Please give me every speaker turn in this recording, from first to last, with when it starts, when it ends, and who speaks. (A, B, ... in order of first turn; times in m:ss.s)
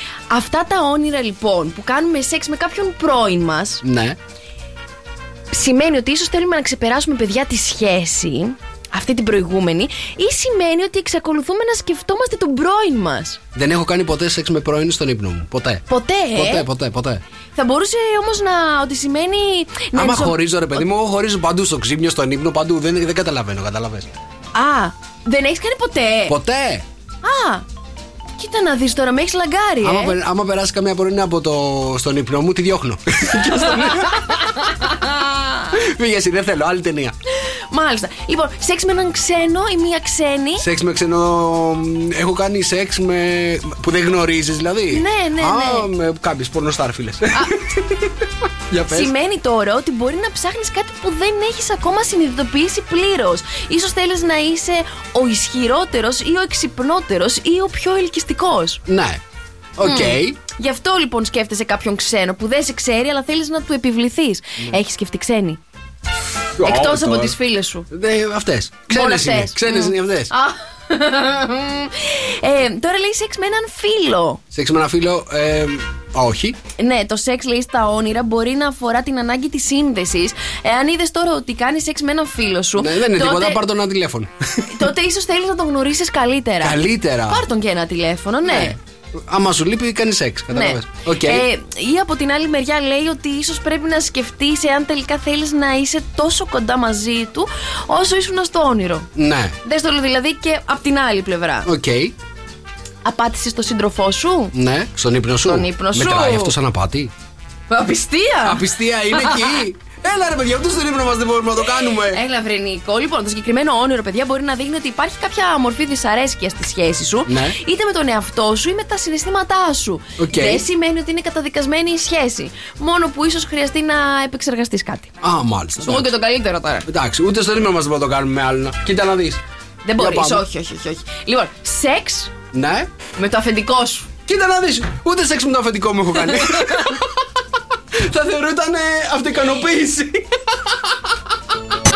0:00.3-0:03.8 A
0:03.8-0:04.2 B
0:05.5-0:13.4 A
0:13.5-0:17.2 B
0:15.9-0:16.7 A
0:17.5-0:20.4 A
0:19.9-0:24.1 B
0:24.5-0:26.4 A
0:26.3-0:26.8 B
0:27.2-0:27.6 A
0:28.4-0:30.2 A
0:29.8-0:34.9 B
0:33.8-0:35.7 A
0:35.7-0:37.1 B
0:37.5-0:40.6 A
0:40.6-0:49.1 B
0:44.9-0:45.9 A
0:48.9-0:58.8 A
0:58.9-0:59.2 B
0:59.8-1:00.4 B
0:59.8-1:05.6 A
1:06.6-1:07.4 B
1:06.6-1:07.9 A
1:07.9-1:10.3 B
1:08.9-1:14.4 A
1:14.5-1:16.6 B
1:16.8-1:23.6 A
1:22.8-1:24.7 B
1:24.6-1:28.8 A
1:26.6-1:27.4 B
1:28.4-1:31.5 B
1:30.5-1:39.1 A
1:39.1-1:39.6 B
1:39.6-1:41.7 A
1:41.6-1:42.1 B
1:43.0-1:44.5 A
1:44.5-1:47.1 B
1:45.4-1:46.6 A
1:47.7-1:49.6 A
1:48.4-1:52.2 B
1:51.9-2:05.1 A
1:57.2-1:57.6 B
2:00.2-2:00.6 B
2:05.2-2:06.1 B
2:05.8-2:06.9 A
2:06.9-2:09.4 B
2:09.8-2:12.3 A
2:10.0-2:10.4 B
2:12.5-2:12.9 B
2:13.1-2:14.1 A
2:14.3-2:17.2 B
2:16.5-2:16.9 A
2:17.9-2:20.4 B